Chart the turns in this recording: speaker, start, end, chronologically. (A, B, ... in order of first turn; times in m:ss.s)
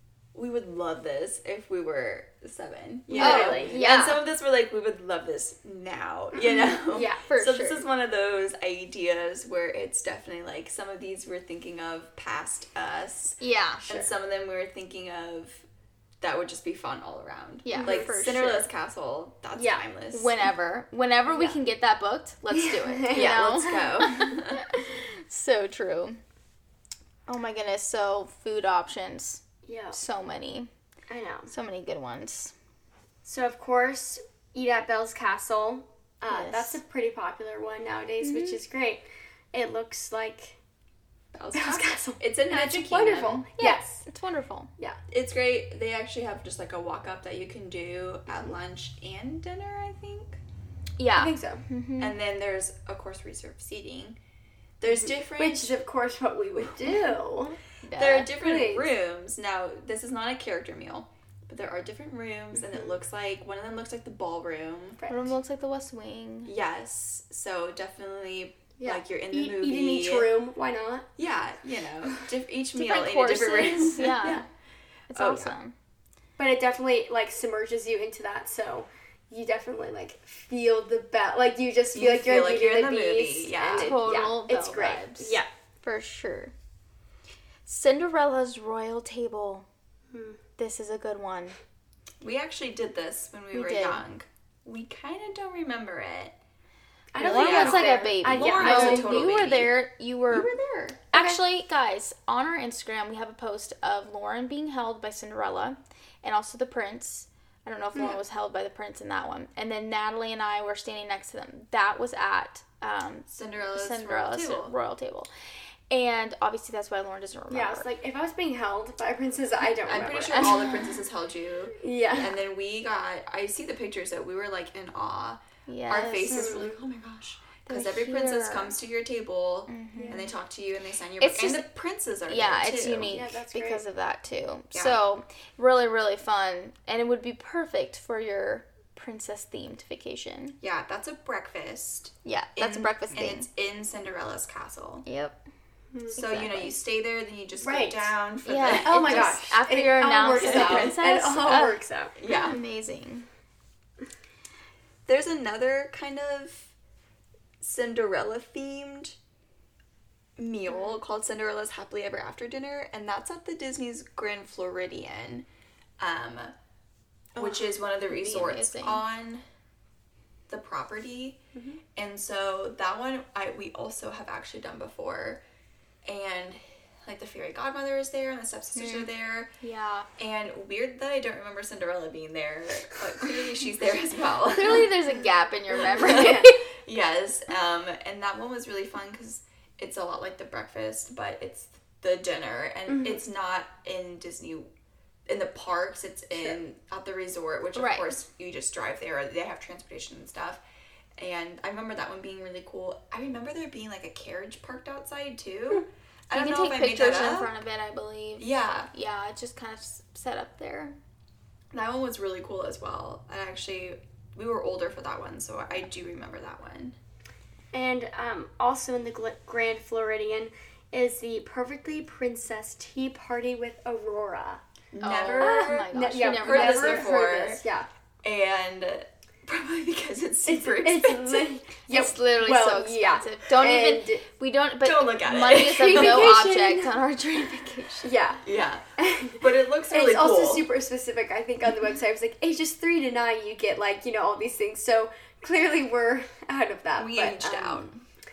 0:00.3-0:15.6 A
0:03.1-0:03.8 B
0:03.1-0:04.2 C
0:06.5-0:07.2 B
0:07.2-0:07.8 C
0:13.4-0:13.8 C
0:16.2-0:20.4 A
0:17.6-0:18.7 C
0:17.7-0:18.1 B
0:19.5-0:19.8 B
0:20.1-0:26.2 C
0:21.3-0:21.6 B
0:22.6-0:23.5 B
0:23.1-0:24.6 A
0:27.3-0:29.4 C
0:29.7-0:30.0 B
0:29.9-0:30.7 C
0:31.1-0:31.5 B
0:31.5-0:32.5 C
0:33.2-0:40.6 B
0:36.3-0:36.8 C
0:38.2-0:38.6 C
0:41.3-0:43.4 A
0:41.5-0:44.0 B
0:43.6-0:44.7 C
0:45.1-0:50.4 A
0:51.0-0:52.2 C
0:51.1-0:51.6 B
0:52.0-0:54.2 A
0:54.8-0:55.7 A
0:54.8-0:57.6 B
0:57.8-0:58.3 C
0:57.9-1:05.0 A
0:58.3-0:58.9 B
1:02.5-1:02.9 B
1:05.0-1:05.3 B
1:05.1-1:06.5 C
1:06.4-1:10.3 A
1:08.8-1:11.1 B
1:11.2-1:14.4 A
1:12.7-1:14.4 C
1:15.1-1:15.7 C
1:15.2-1:15.5 A
1:16.4-1:25.5 B
1:21.9-1:24.0 A
1:23.8-1:26.5 C
1:27.6-1:29.6 C
1:30.1-1:30.4 B
1:30.6-1:31.6 C
1:32.2-1:36.4 A
1:33.5-1:34.0 C
1:37.1-1:39.2 B
1:37.2-1:39.8 A
1:37.2-1:40.5 C
1:40.3-1:41.0 A
1:41.1-1:55.3 C
1:41.1-1:41.4 B
1:47.9-1:48.2 B
1:53.3-1:54.7 A
1:55.9-1:57.9 C
1:57.5-2:00.6 B
1:59.8-2:13.2 A
2:00.3-2:01.0 C
2:01.8-2:02.4 B
2:05.7-2:06.6 C
2:06.3-2:06.8 B
2:07.7-2:08.8 C
2:09.7-2:10.2 C
2:10.0-2:10.2 B
2:11.2-2:11.7 C
2:12.3-2:20.6 C
2:13.0-2:13.8 B
2:14.7-2:15.0 A
2:20.6-2:25.0 A
2:22.2-2:23.5 C
2:25.0-2:25.4 C
2:25.9-2:26.2 B
2:26.1-2:26.8 C
2:26.2-2:29.3 A
2:27.6-2:28.1 B
2:28.4-2:33.3 C
2:28.6-2:32.2 B
2:30.3-2:31.0 A
2:32.2-2:32.6 A
2:35.0-2:36.7 A
2:37.6-2:39.2 A
2:40.4-2:45.4 A
2:46.0-2:46.5 A
2:47.4-2:49.0 C
2:47.4-2:49.4 A
2:50.5-2:51.4 A
2:51.5-2:51.8 B
2:51.9-2:55.4 A
2:56.0-2:59.5 A
2:58.7-3:00.1 C
3:00.2-3:05.0 A
3:04.5-3:06.6 C
3:05.7-3:14.7 A
3:06.0-3:06.5 B
3:12.9-3:13.2 B
3:15.3-3:20.6 A
3:16.3-3:16.6 B
3:17.7-3:18.2 C
3:21.2-3:27.5 A
3:26.3-3:30.9 C
3:28.4-3:28.9 A
3:31.7-3:36.9 A
3:37.7-3:44.6 B
3:44.9-3:47.6 A
3:45.0-3:47.2 C
3:45.4-3:47.9 B
3:48.2-3:51.5 A
3:50.4-3:54.2 B
3:51.9-3:58.2 C
3:54.8-3:56.3 A
3:55.6-3:57.0 B
3:58.0-3:58.4 B
3:58.4-3:58.8 A
3:59.0-4:07.9 B
3:59.4-4:00.7 A
4:07.0-4:08.0 A